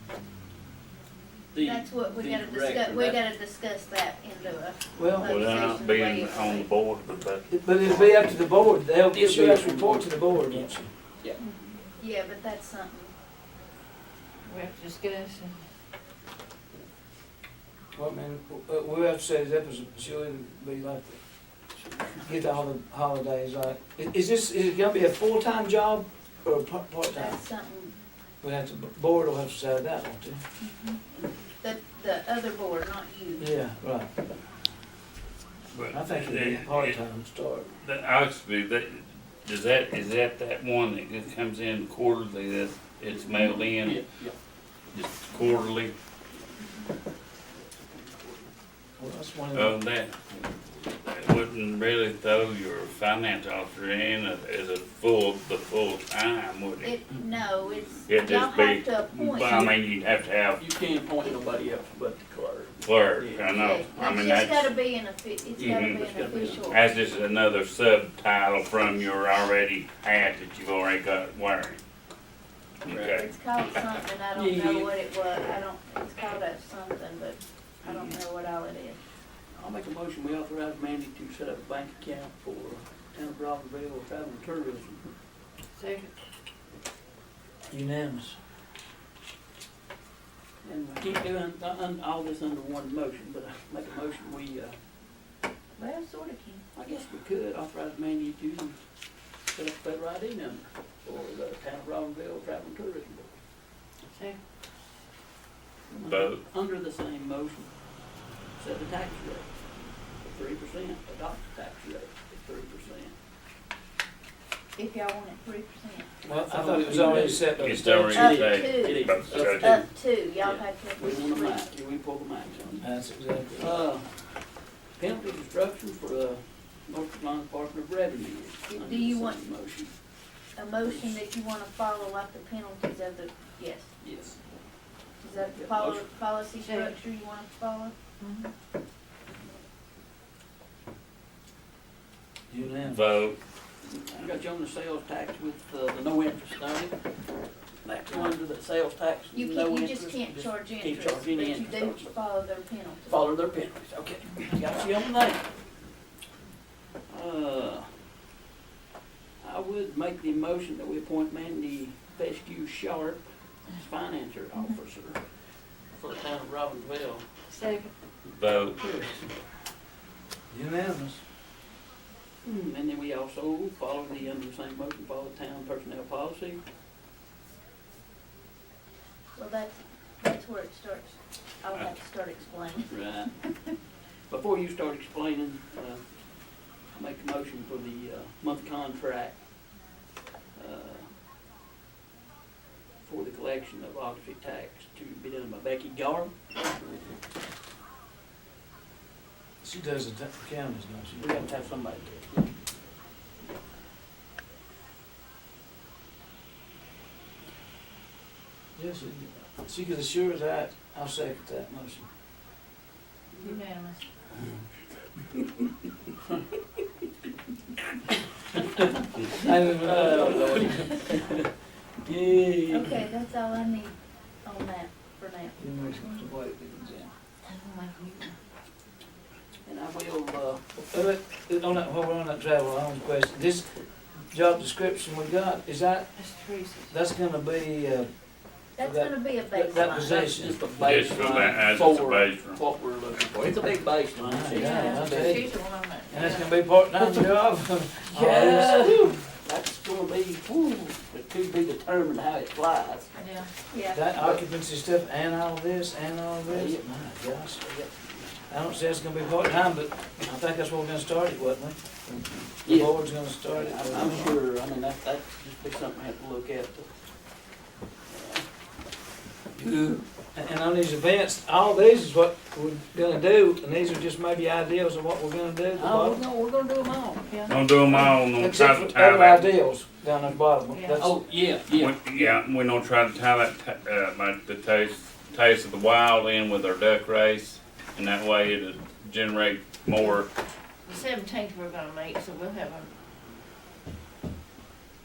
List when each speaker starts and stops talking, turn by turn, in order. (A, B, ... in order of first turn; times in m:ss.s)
0:01.5-0:03.2 A
0:01.6-0:06.7 B
0:04.9-0:05.4 C
0:05.2-0:07.5 D
0:07.5-0:10.9 C
0:09.1-0:11.4 A
0:11.4-0:11.8 E
0:12.0-0:13.1 B
0:14.4-0:15.6 E
0:18.0-0:21.2 C
0:21.8-0:22.2 A
0:22.2-0:27.4 C
0:27.1-0:27.9 B
0:28.4-0:30.4 C
0:30.6-0:31.0 B
0:31.6-0:33.5 B
0:33.4-0:34.1 C
0:35.7-0:37.0 D
0:35.9-0:37.7 C
0:37.8-0:44.0 D
0:43.8-0:44.3 A
0:44.9-0:45.9 D
0:47.5-0:48.5 A
0:49.0-0:49.8 C
0:49.5-0:57.0 D
0:56.8-0:59.8 B
0:58.1-1:00.6 D
1:00.6-1:03.5 A
1:02.8-1:04.7 D
1:03.5-1:06.9 B
1:05.6-1:06.0 D
1:05.8-1:06.8 A
1:06.7-1:11.8 D
1:12.8-1:13.2 A
1:12.9-1:13.3 D
1:13.1-1:19.0 B
1:14.3-1:15.0 A
1:17.8-1:18.2 A
1:19.5-1:25.0 A
1:25.7-1:26.1 E
1:27.7-1:28.4 C
1:30.6-1:34.8 A
1:35.8-1:36.6 B
1:36.7-1:38.8 A
1:39.4-1:43.4 A
1:44.1-1:44.4 E
1:45.9-1:47.8 A
1:46.0-1:46.4 D
1:48.5-1:53.1 A
1:54.7-1:56.1 B
1:56.2-1:58.1 C
1:56.2-2:02.9 A
1:57.5-1:59.8 D
1:58.1-2:01.7 B
2:02.8-2:03.8 C
2:03.6-2:04.4 A
2:05.0-2:10.0 A
2:08.7-2:09.4 B
2:10.5-2:13.9 B
2:10.8-2:11.2 A
2:14.0-2:14.4 A
2:15.2-2:17.9 B
2:15.3-2:16.1 A
2:16.6-2:16.9 E
2:18.2-2:18.5 E
2:22.5-2:23.0 C
2:22.9-2:23.4 D
2:23.8-2:32.5 A
2:28.1-2:28.4 B
2:29.3-2:33.3 B
2:33.0-2:35.4 A
2:37.1-2:38.0 A
2:39.4-2:45.4 A
2:45.9-2:47.3 A
2:47.5-2:47.9 E
2:48.3-2:48.8 D
2:48.8-2:49.3 A
2:50.5-2:51.2 C
2:52.4-2:56.6 A
2:59.4-3:02.9 B
3:02.9-3:03.6 A
3:04.3-3:06.0 A
3:06.9-3:09.4 A
3:10.5-3:11.1 A
3:13.0-3:16.3 A
3:19.6-3:21.4 C
3:21.2-3:22.5 A
3:28.8-3:32.0 C
3:33.3-3:33.6 A
3:33.4-3:34.1 E
3:39.4-3:41.1 C
3:39.8-3:41.5 A
3:42.0-3:43.0 A
3:42.7-3:45.6 B
3:45.6-3:47.1 C
3:47.4-3:48.4 E
3:49.6-3:50.6 A
3:50.9-3:56.2 C
3:56.2-3:56.9 E
3:56.9-4:00.6 C
3:58.8-4:00.2 B
3:59.5-4:05.4 A
4:00.7-4:02.6 D
4:04.2-4:09.2 C
4:04.5-4:06.5 E
4:07.0-4:07.3 A
4:08.1-4:13.4 A
4:13.1-4:13.5 E
4:13.7-4:14.0 B
4:13.9-4:17.8 C
4:14.1-4:14.4 A
4:16.5-4:18.4 A
4:18.5-4:24.4 C
4:22.6-4:26.9 A
4:28.1-4:28.5 A
4:29.5-4:30.0 A
4:30.3-4:36.2 C
4:35.7-4:37.5 A
4:37.2-4:37.5 E
4:37.5-4:39.5 D
4:37.9-4:41.2 C
4:40.7-4:41.1 E
4:41.0-4:42.4 A
4:41.7-4:50.3 D
4:50.9-4:52.9 E